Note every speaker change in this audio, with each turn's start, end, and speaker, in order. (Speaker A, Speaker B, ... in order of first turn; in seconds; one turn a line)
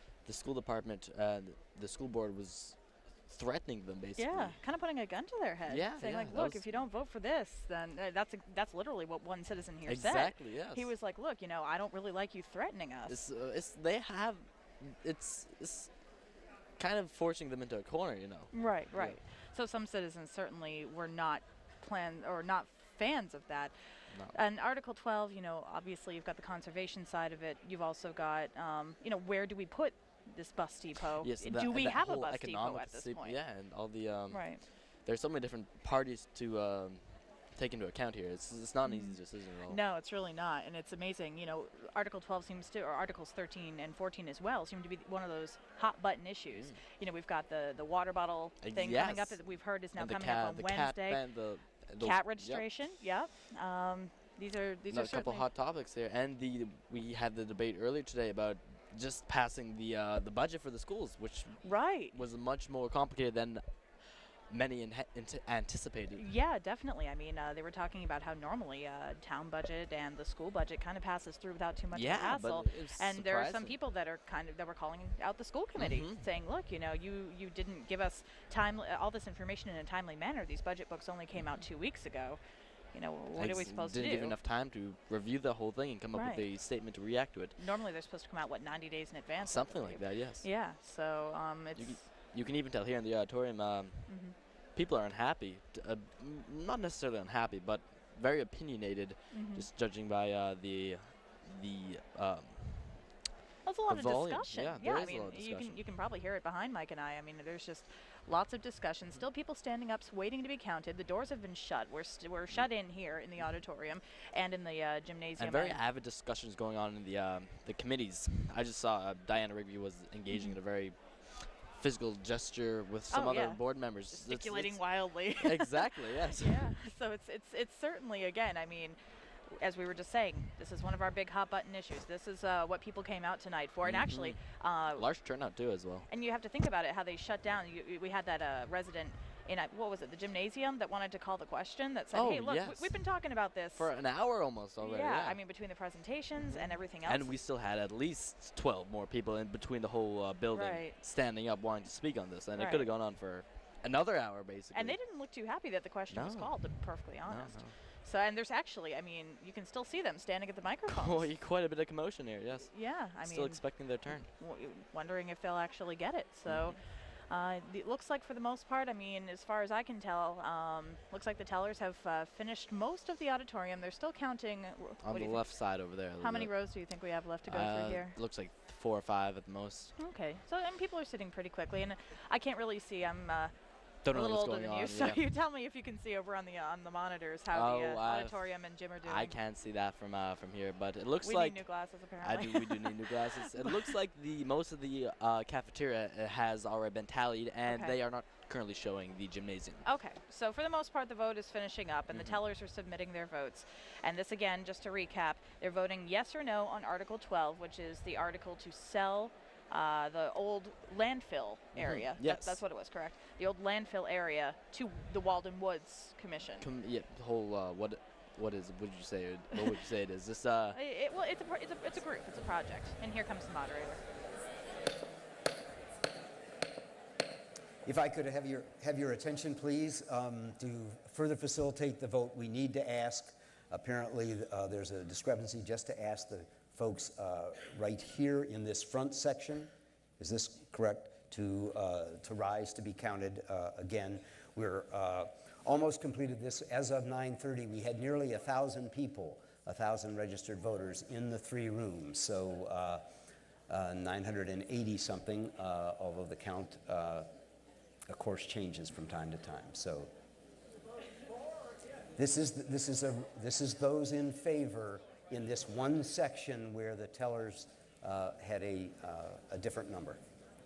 Speaker A: 0.2-4.6
Speaker B: 4.2-13.2
Speaker A: 5.7-6.7
Speaker A: 9.9-10.9
Speaker A: 13.1-15.9
Speaker A: 16.8-19.2
Speaker B: 18.5-23.7
Speaker B: 24.3-33.4
Speaker A: 31.2-34.5
Speaker B: 34.3-34.6
Speaker A: 35.0-39.8
Speaker B: 38.8-51.2
Speaker A: 46.5-46.8
Speaker A: 48.6-52.6
Speaker B: 52.0-55.5
Speaker A: 54.9-63.6
Speaker B: 61.6-62.2
Speaker A: 64.5-66.2
Speaker B: 66.2-82.4
Speaker A: 71.9-73.8
Speaker A: 75.8-76.2
Speaker B: 82.9-84.4
Speaker A: 83.4-87.6
Speaker B: 86.1-86.5
Speaker B: 87.6-92.0
Speaker A: 89.4-90.5
Speaker A: 91.8-94.1
Speaker B: 94.1-94.3
Speaker A: 94.8-103.0
Speaker B: 99.3-99.7
Speaker B: 103.7-115.8
Speaker A: 103.9-105.8
Speaker A: 115.4-124.8
Speaker B: 123.1-129.0
Speaker A: 125.4-126.7
Speaker B: 129.5-135.1
Speaker A: 133.8-134.4
Speaker A: 135.0-136.1
Speaker B: 136.1-143.9
Speaker A: 142.1-143.0
Speaker A: 143.8-145.4
Speaker B: 144.8-147.3
Speaker A: 146.4-155.0
Speaker B: 150.5-151.0
Speaker B: 152.6-152.9
Speaker B: 154.7-161.3
Speaker A: 156.1-157.7
Speaker A: 160.9-162.7
Speaker B: 162.7-175.5
Speaker A: 163.2-164.3
Speaker A: 166.5-166.8
Speaker A: 175.0-176.5
Speaker B: 176.2-178.2
Speaker A: 177.4-179.9
Speaker B: 180.0-183.5
Speaker A: 184.1-185.2
Speaker B: 184.1-189.3
Speaker A: 187.5-188.4
Speaker A: 189.0-191.6
Speaker B: 191.2-193.8
Speaker A: 192.2-199.8
Speaker B: 197.7-197.9
Speaker B: 199.8-216.7
Speaker A: 202.1-202.4
Speaker A: 211.8-212.6
Speaker A: 216.6-220.8
Speaker B: 220.7-224.0
Speaker C: 227.8-253.1
Speaker C: 253.7-257.3
Speaker C: 258.1-260.1
Speaker C: 262.2-270.2